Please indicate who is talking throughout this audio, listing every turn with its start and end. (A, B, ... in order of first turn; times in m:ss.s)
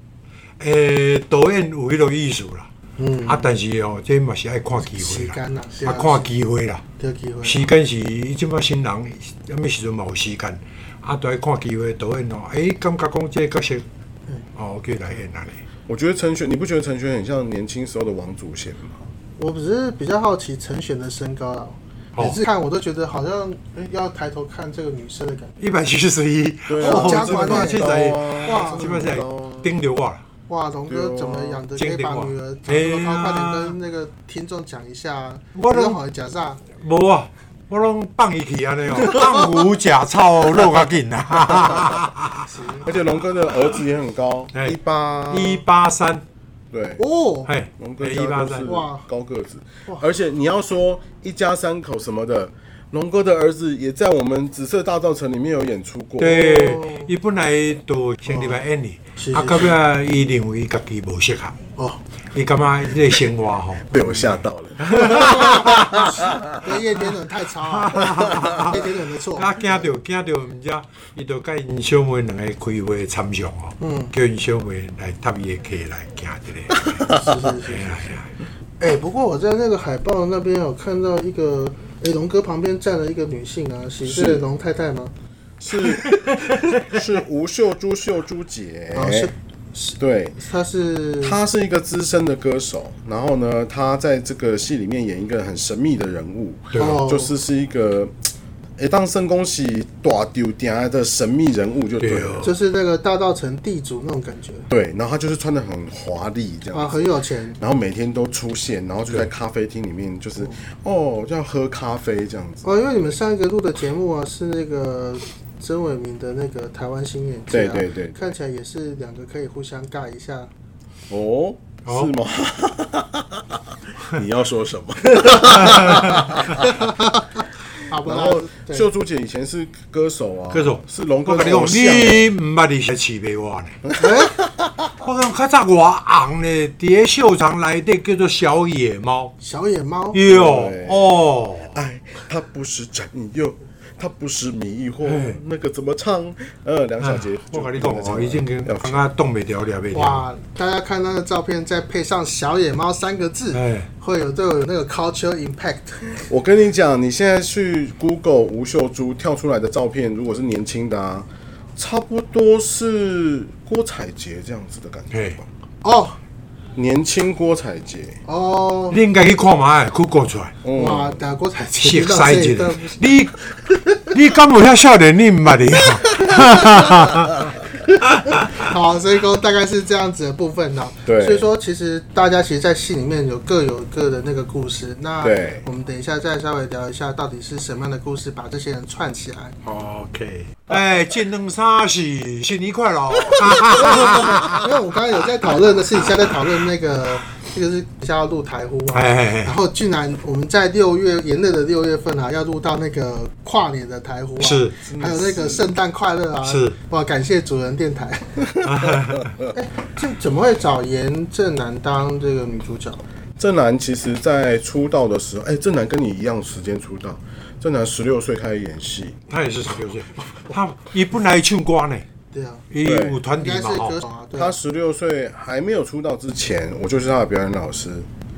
0:00.6-0:02.7 A
0:03.0-0:03.5 B
0:03.2-0:06.8 A
0:04.9-0:06.3 B
0:07.0-0:07.7 B
0:07.4-0:13.8 A
0:14.5-0:15.6 A
0:15.9-0:19.1 C
0:19.4-0:25.5 B
0:25.6-0:30.2 A
0:26.7-0:29.7 C
0:26.8-0:29.0 B
0:30.5-0:36.6 B
0:30.9-0:31.6 C
0:31.7-0:33.8 A
0:35.5-0:36.0 A
0:36.7-0:42.5 A
0:42.4-0:42.9 B
0:42.8-0:45.6 C
0:45.3-0:46.2 A
0:46.7-0:47.0 C
0:47.0-0:47.5 B
0:47.4-0:48.7 A
0:47.8-0:56.5 C
0:48.6-0:49.0 B
0:56.2-1:01.6 A
0:56.3-0:57.1 B
0:58.3-0:58.6 B
0:59.2-0:59.7 B
1:01.8-1:02.0 B
1:02.3-1:04.0 A
1:03.9-1:06.5 C
1:04.8-1:06.1 A
1:04.9-1:09.8 B
1:07.6-1:18.3 A
1:08.0-1:08.6 C
1:13.8-1:14.1 B
1:16.8-1:17.3 C
1:17.1-1:18.0 B
1:18.8-1:25.1 B
1:24.0-1:24.4 C
1:25.6-1:29.3 C
1:28.9-1:31.4 B
1:30.0-1:30.4 C
1:31.2-1:38.2 C
1:36.7-1:37.0 A
1:36.7-1:37.3 B
1:38.8-1:42.5 C
1:42.0-1:42.5 A
1:42.4-1:44.7 B
1:44.7-1:47.0 C
1:46.7-1:47.6 B
1:47.6-1:52.7 C
1:52.6-2:00.5 B
1:57.5-1:58.2 C
2:01.1-2:06.9 C
2:05.6-2:06.2 A
2:06.4-2:08.8 B
2:07.9-2:12.3 C
2:10.5-2:13.8 A
2:13.8-2:14.9 C
2:14.0-2:14.4 B
2:15.0-2:19.3 A
2:19.4-2:20.2 B
2:20.1-2:21.8 A
2:20.2-2:21.2 C
2:21.7-2:29.0 C
2:25.0-2:25.4 A
2:27.0-2:30.2 A
2:29.9-2:36.3 B
2:33.5-2:33.9 A
2:36.2-2:45.5 C
2:45.8-2:46.2 B
2:46.8-2:48.2 C
2:48.2-2:49.0 B
2:48.9-2:50.6 A
2:50.6-2:51.2 C
2:50.7-2:53.2 B
2:51.8-2:58.6 A
2:56.3-2:56.7 B
2:58.4-3:09.5 B
3:01.0-3:01.4 C
3:05.2-3:05.6 C
3:09.6-3:14.6 A
3:13.5-3:28.5 B
3:18.9-3:19.6 A
3:24.4-3:24.8 A
3:24.8-3:25.6 C
3:26.4-3:26.8 A
3:28.4-3:29.3 C
3:28.6-3:29.4 A
3:29.5-3:33.0 B
3:33.4-3:39.2 C
3:39.3-3:42.0 A
3:42.3-3:42.6 B
3:42.7-3:44.0 A
3:42.8-3:43.2 C
3:43.3-3:44.6 B
3:44.3-3:48.1 C